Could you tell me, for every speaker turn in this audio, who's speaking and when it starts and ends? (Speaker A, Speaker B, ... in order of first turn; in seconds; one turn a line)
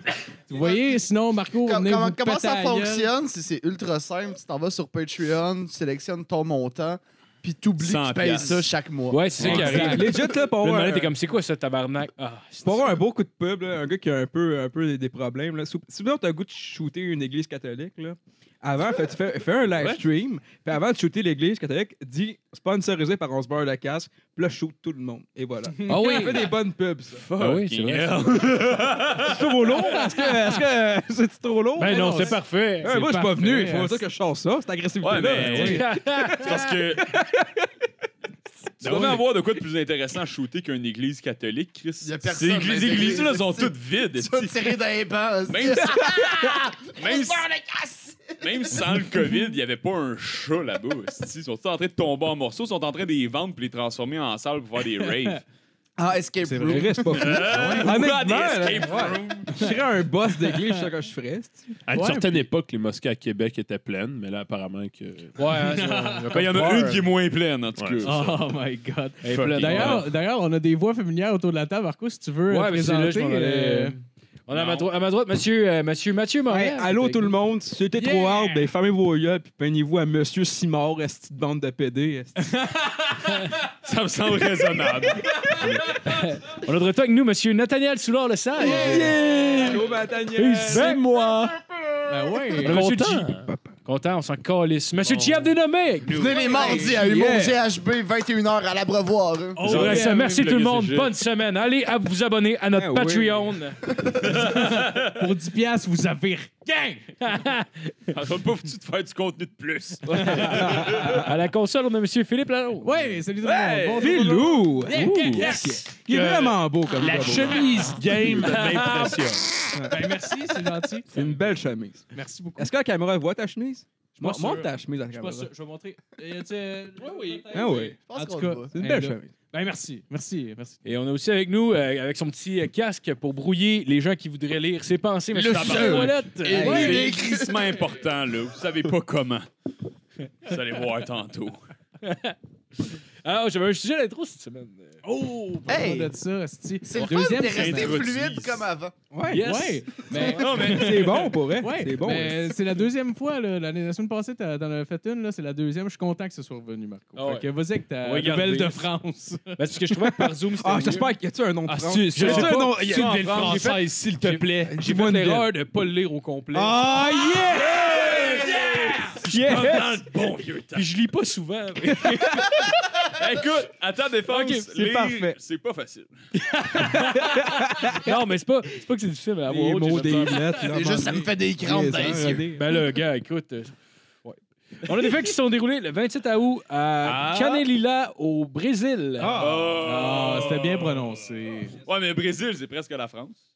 Speaker A: 0.5-3.1
Speaker B: 0.5-1.0
Speaker B: 1.6-10.4
Speaker C: 7.8-8.7
Speaker D: 9.1-13.0
Speaker C: 9.4-9.8
Speaker E: 9.4-11.1
Speaker A: 9.5-10.1
Speaker E: 12.6-27.2
Speaker A: 25.8-26.4
Speaker D: 25.9-26.5
Speaker C: 27.1-29.7
Speaker D: 27.4-28.5
Speaker E: 29.2-37.6
Speaker A: 29.7-30.6
Speaker D: 31.8-33.0
Speaker A: 31.9-34.0
Speaker C: 35.0-37.2
Speaker A: 35.3-35.8
Speaker D: 35.7-36.6
Speaker C: 38.8-44.8
Speaker E: 38.8-39.2
Speaker B: 42.0-48.9
Speaker C: 45.5-47.4
Speaker E: 45.8-46.3
Speaker C: 48.4-55.4
Speaker B: 56.0-57.8
Speaker A: 56.4-57.9
Speaker E: 56.6-61.8
Speaker C: 57.1-59.7
Speaker F: 61.9-65.5
Speaker A: 61.9-62.5
Speaker D: 65.4-67.1
Speaker A: 65.6-66.4
Speaker C: 66.3-68.4
Speaker F: 67.8-68.1
Speaker A: 68.0-74.0
Speaker D: 69.2-70.0
Speaker C: 69.4-70.1
Speaker D: 72.5-77.3
Speaker C: 74.5-74.9
Speaker E: 76.5-82.5
Speaker A: 77.9-78.7
Speaker A: 82.4-83.0
Speaker C: 83.6-85.3
Speaker D: 86.0-89.8
Speaker E: 88.6-90.9
Speaker D: 90.3-91.0
Speaker F: 90.7-92.1
Speaker A: 92.1-92.8
Speaker D: 92.6-96.3
Speaker F: 92.7-93.4
Speaker E: 93.3-93.7
Speaker F: 95.0-95.5
Speaker B: 96.1-99.6
Speaker E: 96.4-97.6
Speaker A: 99.6-100.4
Speaker C: 99.6-101.1
Speaker D: 99.6-103.8
Speaker E: 102.7-103.4
Speaker B: 103.9-104.2
Speaker C: 104.2-105.2
Speaker A: 104.4-107.2
Speaker D: 107.2-108.1
Speaker C: 108.1-111.2
Speaker E: 110.1-111.3
Speaker D: 110.5-113.0
Speaker A: 112.8-114.8
Speaker C: 113.4-114.4
Speaker E: 114.0-117.6
Speaker D: 114.9-115.8
Speaker F: 116.1-119.5
Speaker A: 117.5-117.9
Speaker D: 118.4-119.3
Speaker E: 119.7-120.1
Speaker A: 119.9-121.2
Speaker E: 121.1-125.5
Speaker A: 122.1-122.7
Speaker A: 124.2-130.8
Speaker E: 127.5-128.0
Speaker B: 128.1-128.8
Speaker E: 128.7-129.3
Speaker D: 130.8-137.1
Speaker B: 135.3-137.9
Speaker F: 135.5-136.2
Speaker C: 135.5-139.5
Speaker E: 136.6-137.0
Speaker C: 140.4-141.6
Speaker D: 142.0-142.3
Speaker D: 143.2-145.0
Speaker A: 145.0-148.0
Speaker B: 145.7-146.1
Speaker B: 146.8-148.9
Speaker C: 147.0-148.7
Speaker E: 149.1-149.6
Speaker D: 149.3-150.6
Speaker A: 149.3-159.7
Speaker C: 150.0-151.4
Speaker E: 150.2-152.6
Speaker D: 157.1-157.5
Speaker D: 158.0-158.9
Speaker D: 159.6-161.2
Speaker E: 160.0-163.6
Speaker C: 161.8-164.7
Speaker D: 162.1-166.9
Speaker E: 164.6-165.5
Speaker E: 166.5-168.5
Speaker C: 167.6-170.9
Speaker D: 167.9-170.1
Speaker E: 169.2-170.1
Speaker D: 170.7-172.3
Speaker E: 171.8-172.7
Speaker C: 173.1-176.2
Speaker D: 174.3-174.6
Speaker E: 174.7-175.4
Speaker D: 176.7-180.7
Speaker E: 176.7-178.2
Speaker E: 179.5-182.8
Speaker B: 180.7-182.5
Speaker D: 182.5-183.7
Speaker D: 184.8-189.8
Speaker C: 187.0-187.6
Speaker E: 189.2-189.8
Speaker C: 189.4-190.9
Speaker A: 189.8-191.8
Speaker C: 191.8-193.4